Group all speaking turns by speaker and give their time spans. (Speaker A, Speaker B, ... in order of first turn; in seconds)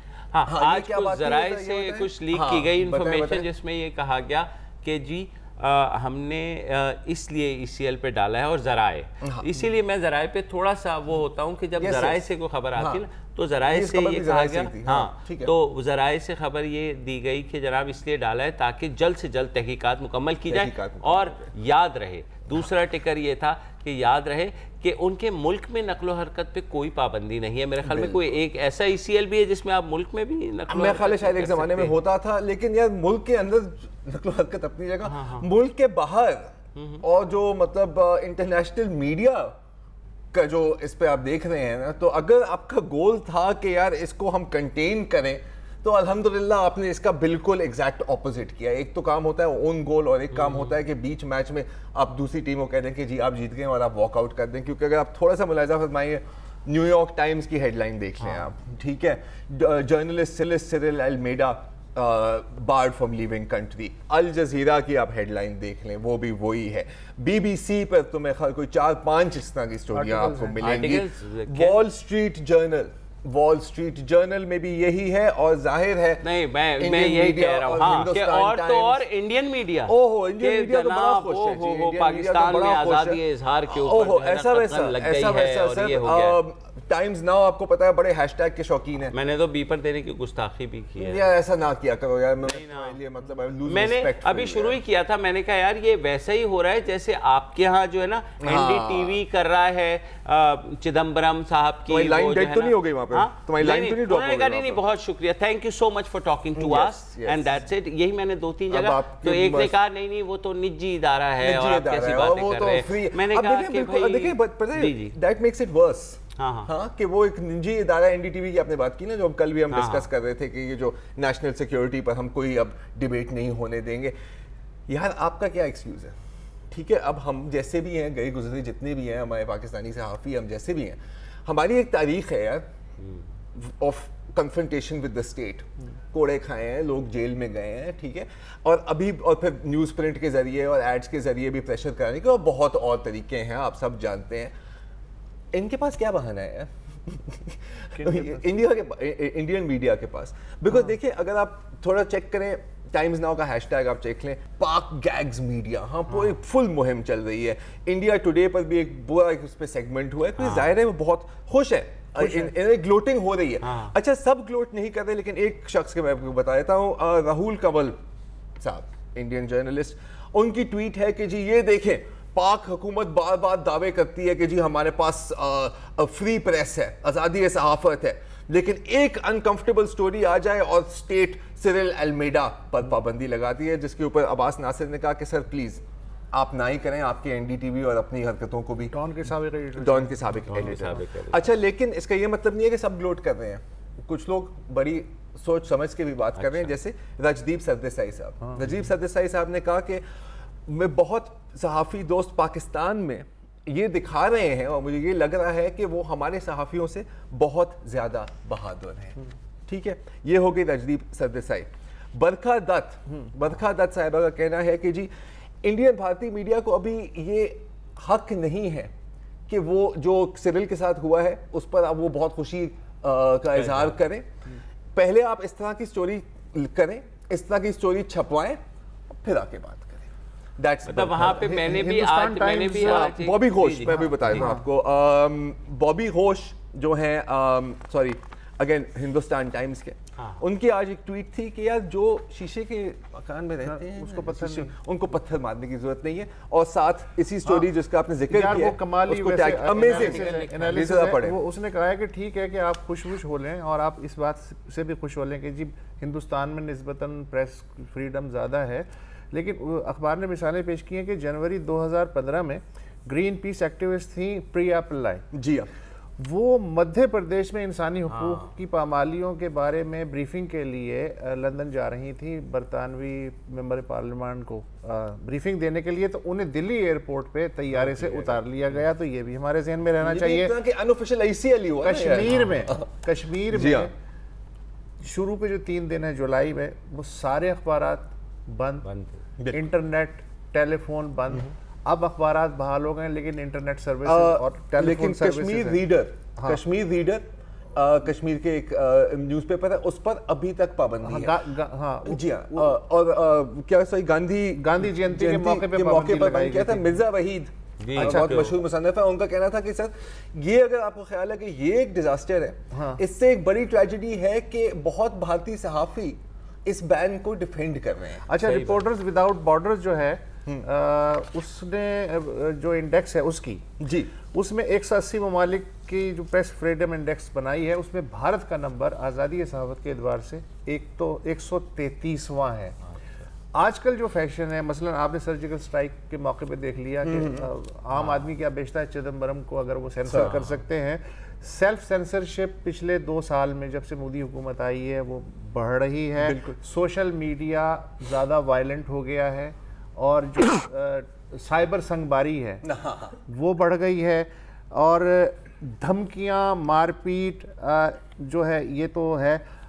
Speaker A: 0.3-32.0, 35.0-35.5, 36.8-37.0, 50.3-50.8, 70.6-71.8, 76.2-86.4, 89.1-91.3, 92.5-93.0, 93.7-115.2, 116.4-116.7, 119.7-120.1, 160.4-160.7, 163.6-163.9, 190.5-191.5, 196.4-196.7, 223.5-224.0, 230.9-234.5, 240.2-240.4, 249.7-250.9, 268.1-268.5, 277.7-278.4, 282.3-282.6, 288.8-289.2, 307.8-308.6, 318.4-318.8, 340.2-340.6
Speaker B: 0.5-3.5, 9.2-9.6, 11.8-12.2, 13.7-15.5, 20.5-21.5, 27.9-28.3, 30.7-39.6, 40.3-76.3, 76.8-79.0, 79.9-89.1, 91.0-94.8, 98.4-99.2, 101.9-104.8, 106.6-107.5, 108.7-109.8, 111.4-124.2, 124.9-126.2, 126.7-132.7, 133.6-144.5, 145.5-168.0, 168.6-188.9, 189.8-200.0, 200.7-215.1, 215.6-218.9, 219.5-224.3, 224.9-228.6, 229.1-231.8, 232.7-251.4, 265.3-265.7, 280.0-282.9, 283.5-283.9, 294.1-301.4, 302.1-318.3, 323.8-324.1, 337.0-337.5, 340.1-340.4, 346.2-346.6, 352.6-353.2
Speaker C: 69.9-70.9, 148.0-148.5, 162.2-162.6, 188.9-191.0, 198.4-198.7, 231.2-233.2, 233.9-234.7, 243.6-244.7, 248.3-265.3, 266.2-280.6, 281.8-283.9, 285.0-288.9, 289.5-296.6, 301.0-302.8, 304.6-307.0, 308.0-308.5, 312.7-313.0, 318.3-332.8, 333.5-352.6, 353.2-359.4